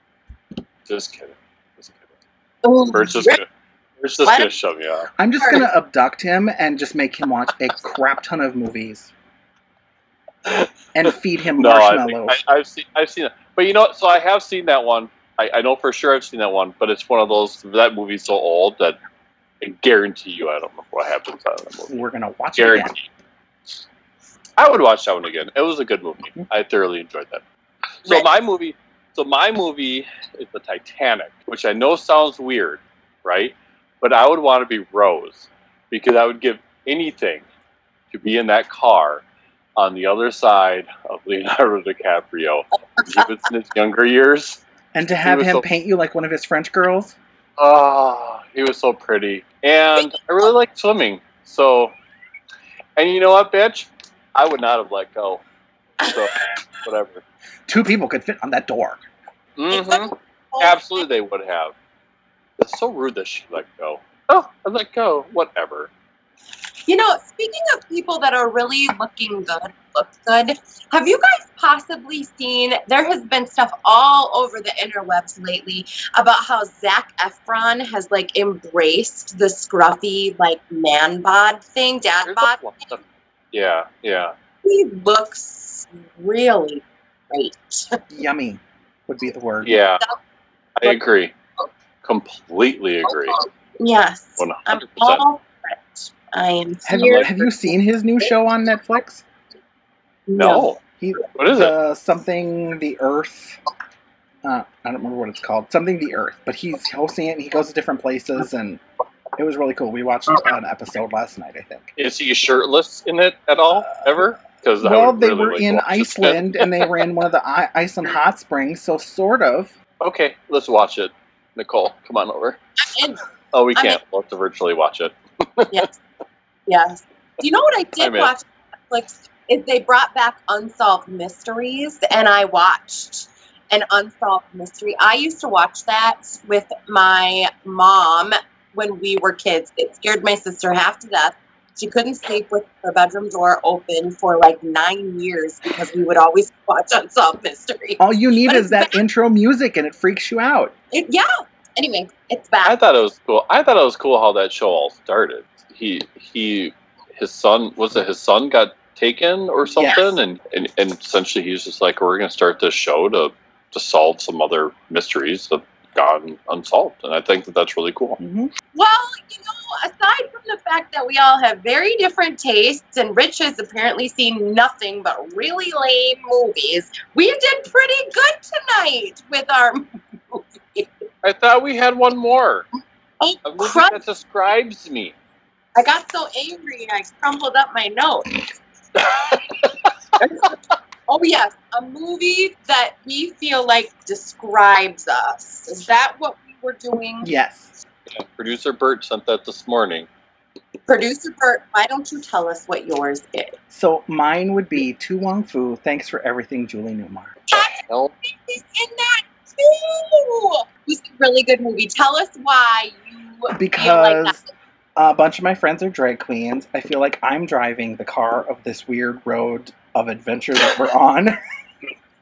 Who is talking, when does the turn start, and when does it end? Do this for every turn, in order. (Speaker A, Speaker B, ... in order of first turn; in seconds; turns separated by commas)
Speaker A: 0.8-2.1, Speaker B: 2.6-3.4, Speaker A: 2.9-3.5, Speaker A: 4.0-5.1, Speaker B: 4.2-4.5, Speaker C: 5.2-9.1, Speaker B: 5.4-5.7, Speaker A: 10.4-19.0, Speaker C: 10.9-12.4, Speaker A: 19.6-22.0, Speaker C: 21.9-22.9, Speaker A: 22.6-23.0, Speaker A: 24.6-27.4, Speaker A: 28.0-37.4, Speaker A: 38.1-39.2, Speaker A: 39.8-44.6, Speaker B: 43.0-43.2, Speaker C: 44.9-47.1, Speaker A: 45.2-45.6, Speaker A: 47.6-51.9, Speaker A: 53.0-55.4, Speaker A: 56.0-57.2, Speaker C: 57.7-59.0, Speaker A: 59.6-61.7, Speaker B: 59.7-61.0, Speaker A: 62.6-65.9, Speaker B: 66.9-82.9, Speaker A: 82.2-83.0, Speaker A: 83.5-84.3, Speaker B: 84.6-88.0, Speaker C: 88.1-89.8, Speaker A: 89.6-90.0, Speaker A: 90.8-91.3, Speaker A: 92.0-93.4, Speaker B: 93.4-97.7, Speaker A: 94.4-95.2, Speaker C: 96.8-99.2, Speaker B: 100.3-100.7, Speaker A: 100.3-100.8, Speaker C: 101.0-103.6, Speaker A: 101.3-101.7, Speaker C: 104.4-108.8, Speaker C: 109.4-111.9, Speaker A: 112.0-117.1, Speaker C: 114.8-119.7, Speaker A: 120.0-122.6, Speaker B: 122.8-123.2, Speaker A: 123.5-125.8, Speaker B: 125.7-126.0, Speaker B: 126.7-148.9, Speaker A: 128.0-128.3, Speaker C: 148.0-150.7, Speaker B: 150.9-152.8, Speaker A: 152.6-168.2, Speaker C: 159.8-160.2, Speaker C: 168.2-168.5, Speaker B: 168.7-180.9, Speaker A: 181.2-182.7, Speaker B: 183.2-184.0, Speaker A: 183.4-185.1, Speaker B: 185.8-188.4, Speaker A: 189.1-189.9, Speaker B: 190.2-190.6, Speaker B: 191.1-197.3, Speaker C: 197.2-197.7, Speaker A: 198.1-200.1, Speaker B: 200.9-203.6, Speaker C: 203.7-207.3, Speaker A: 207.5-208.1, Speaker B: 207.5-214.4, Speaker C: 213.5-214.4, Speaker C: 214.9-221.4